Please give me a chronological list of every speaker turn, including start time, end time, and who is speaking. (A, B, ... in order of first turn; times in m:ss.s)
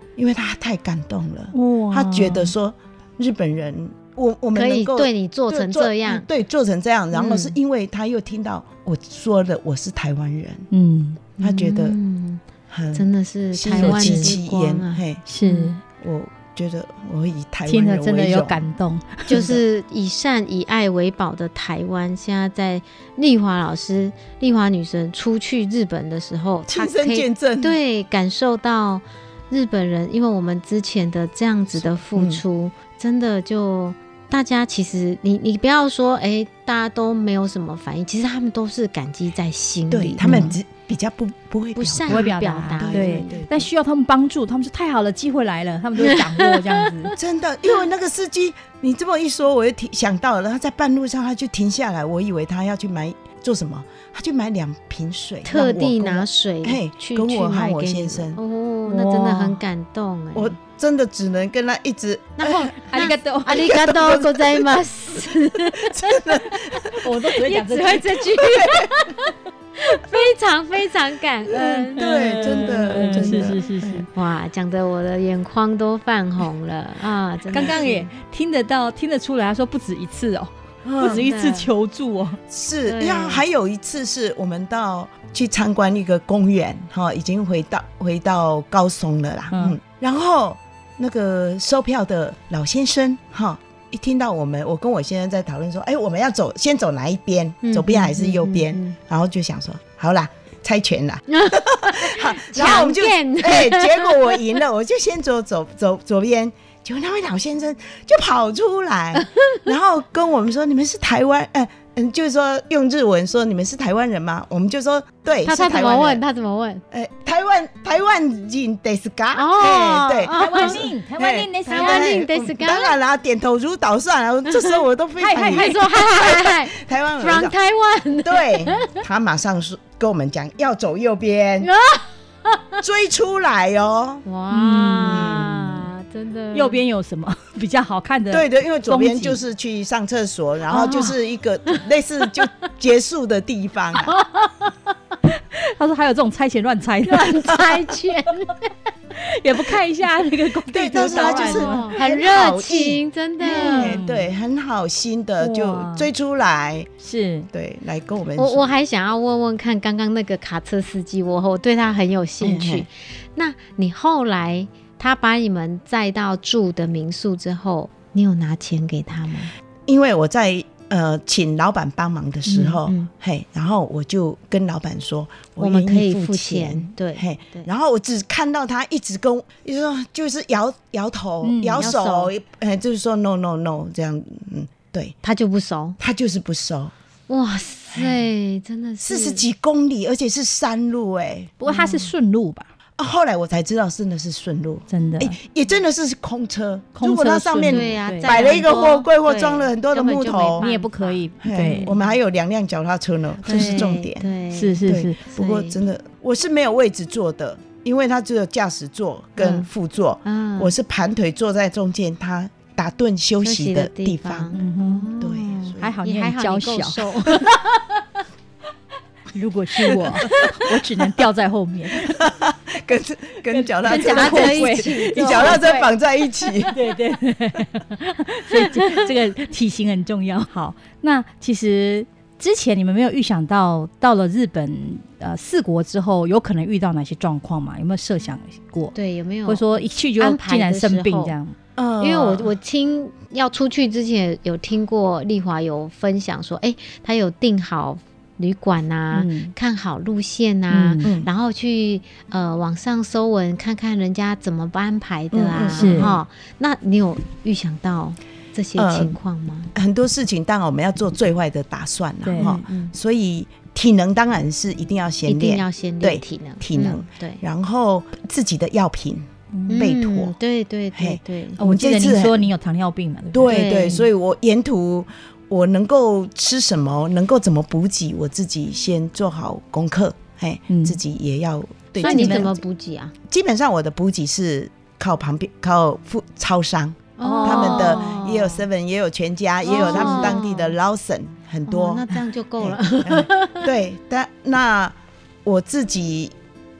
0:00.2-0:10.7 A
0:01.5-0:02.5 B
0:04.5-0:06.2 C
0:07.1-0:07.5 C
0:10.7-0:11.2 B
0:11.4-0:12.4 C
0:11.4-0:12.0 A
0:12.7-0:15.2 A
0:12.9-0:15.7 C
0:13.8-0:14.3 B
0:15.3-0:15.8 B
0:16.0-0:18.6 A
0:17.7-0:19.4 B
0:19.3-0:40.5 C
0:19.3-0:19.6 A
0:26.7-0:27.8 A
0:32.1-0:32.4 A
0:39.9-0:43.7 A
0:40.2-0:40.6 B
0:41.8-0:43.4 C
0:42.1-0:47.1 B
0:46.0-0:46.8 C
0:47.1-0:58.4 A
0:55.4-1:00.6 C
0:58.9-0:59.6 B
1:00.3-1:07.0 A
1:02.4-1:18.1 C
1:02.9-1:03.7 B
1:07.0-1:08.3 B
1:08.4-1:08.9 A
1:11.5-1:14.1 B
1:11.9-1:13.6 A
1:17.5-1:22.4 B
1:17.5-1:17.8 A
1:20.8-1:21.3 A
1:21.0-1:21.7 C
1:22.5-1:56.2 A
1:22.8-1:23.4 C
1:29.5-1:29.8 B
1:37.6-1:39.0 C
1:41.3-1:44.4 C
1:55.4-1:56.8 C
1:56.9-2:07.5 A
1:59.3-2:00.9 C
2:00.3-2:02.2 B
2:01.7-2:02.9 C
2:05.2-2:06.1 B
2:05.4-2:09.0 C
2:08.2-2:11.7 A
2:11.6-2:12.8 C
2:12.8-2:14.2 A
2:14.2-2:16.8 C
2:14.5-2:15.2 B
2:15.0-2:15.7 A
2:16.5-2:19.4 B
2:18.3-2:24.1 A
2:20.8-2:21.1 C
2:24.0-2:24.7 C
2:25.5-2:27.6 B
2:27.0-2:28.7 C
2:29.2-2:31.9 B
2:30.7-2:36.9 A
2:31.0-2:34.0 C
2:33.5-2:34.3 B
2:35.4-2:36.1 B
2:37.0-2:37.5 B
2:37.5-2:38.6 A
2:38.4-2:49.5 C
2:42.4-2:42.9 A
2:49.9-3:05.1 A
2:52.5-2:53.1 C
2:55.6-2:57.7 C
3:01.4-3:01.9 B
3:01.8-3:02.3 C
3:05.2-3:06.0 C
3:06.0-3:06.9 A
3:07.3-3:09.4 C
3:07.9-3:08.2 A
3:09.0-3:11.5 A
3:11.6-3:12.7 B
3:11.6-3:12.1 C
3:13.0-3:20.6 A
3:14.9-3:15.4 B
3:17.0-3:18.6 B
3:17.7-3:22.1 C
3:20.5-3:21.9 B
3:21.4-3:24.2 A
3:23.4-3:25.8 C
3:23.5-3:23.8 B
3:24.5-3:25.2 B
3:24.8-3:34.6 A
3:29.4-3:29.7 C
3:30.2-3:30.7 C
3:33.4-3:37.8 C
3:34.5-3:35.1 B
3:35.2-3:35.9 A
3:35.8-3:37.5 B
3:39.3-3:42.2 B
3:40.0-3:40.4 A
3:40.2-3:40.6 C
3:41.9-3:46.8 A
3:43.5-3:45.8 B
3:43.9-3:45.9 C
3:46.7-3:58.9 B
3:48.5-3:49.0 C
3:58.9-4:01.3 C
3:59.5-4:01.5 B
4:01.8-4:02.5 A
4:02.0-4:19.7 C
4:09.1-4:09.5 B
4:10.7-4:11.1 B
4:11.0-4:11.3 A
4:15.3-4:16.2 A
4:15.8-4:16.1 B
4:18.8-4:19.1 A
4:19.7-4:30.3 A
4:22.2-4:22.5 B
4:22.4-4:22.9 C
4:25.2-4:27.4 C
4:29.5-4:29.9 B
4:29.7-4:31.6 C
4:30.9-4:32.5 A
4:31.6-4:33.9 B
4:33.3-4:42.6 A
4:33.5-4:34.0 C
4:40.7-4:41.0 B
4:42.0-4:42.5 B
4:42.0-4:43.1 C
4:43.3-4:56.3 A
4:47.2-4:48.6 C
4:47.2-4:48.0 B
4:49.6-4:50.7 C
4:49.7-4:50.4 B
4:51.7-4:53.7 C